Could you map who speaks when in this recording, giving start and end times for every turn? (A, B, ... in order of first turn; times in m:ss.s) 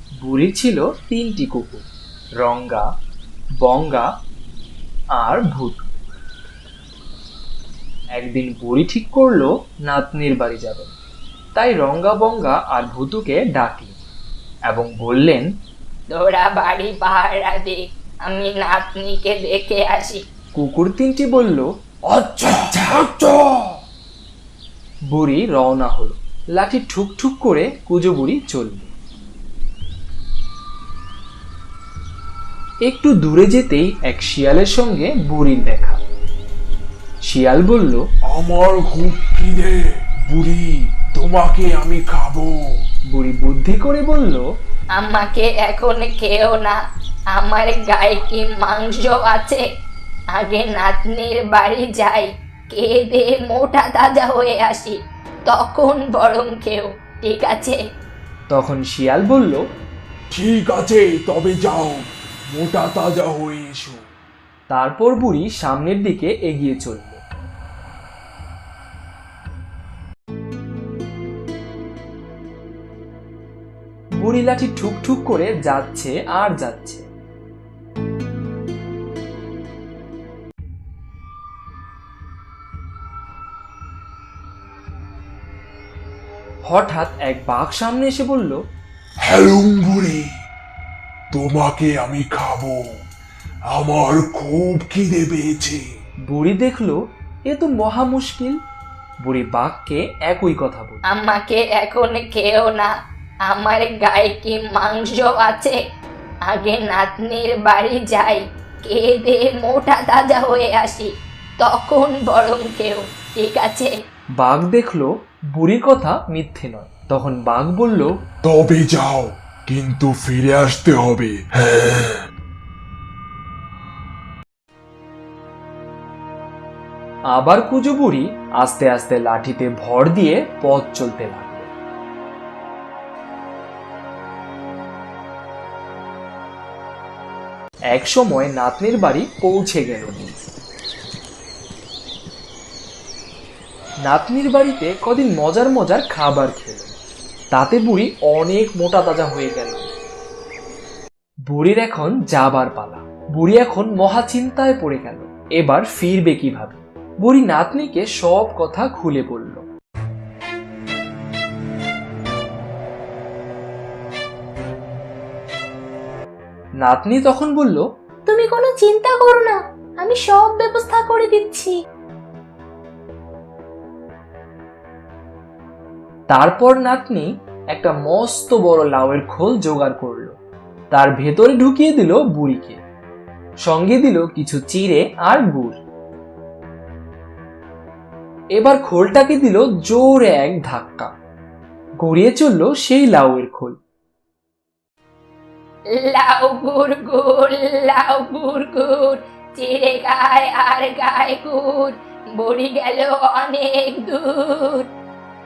0:00.2-0:01.9 A
0:02.4-0:02.9 A
0:03.6-0:04.1 A
0:05.2-0:05.9 A
0:08.2-0:11.0 A
0:11.6-0:14.0 A
0:14.7-0:15.5 A
0:16.1-0:20.2 B
0:20.6-0:21.7 A
0:22.1-0:23.7 C
0:25.1-0:28.9 A
0:32.9-0:36.0 A
0:37.3-0:38.0 A
0:38.3-0:42.6 C
0:43.1-0:44.4 A
0:45.0-0:46.8 B
0:47.3-0:49.6 B
0:50.3-0:55.0 B
0:55.5-0:57.8 B
0:58.5-0:59.6 A
1:00.3-1:04.0 C
1:04.7-1:07.2 A
1:14.2-1:17.1 A
1:26.7-1:28.6 A
1:29.2-1:30.3 C
1:31.3-1:32.8 C
1:33.7-1:35.8 C
1:36.3-1:38.6 A
1:39.2-1:41.0 A
1:41.1-1:42.9 B
1:43.5-1:45.8 B
1:46.5-1:51.1 B
1:51.6-1:53.9 B
1:54.4-1:58.1 A
1:58.4-2:02.2 C
2:07.4-2:11.7 A
2:17.9-2:20.5 A
2:24.0-2:27.0 A
2:27.5-2:29.9 A
2:31.5-2:39.6 A
2:46.8-2:47.8 A
2:48.3-2:51.7 B
2:56.3-3:00.4 A
3:00.9-3:02.8 A
3:03.6-3:05.8 A
3:08.6-3:11.1 A
3:12.0-3:13.8 A
3:16.0-3:24.9 B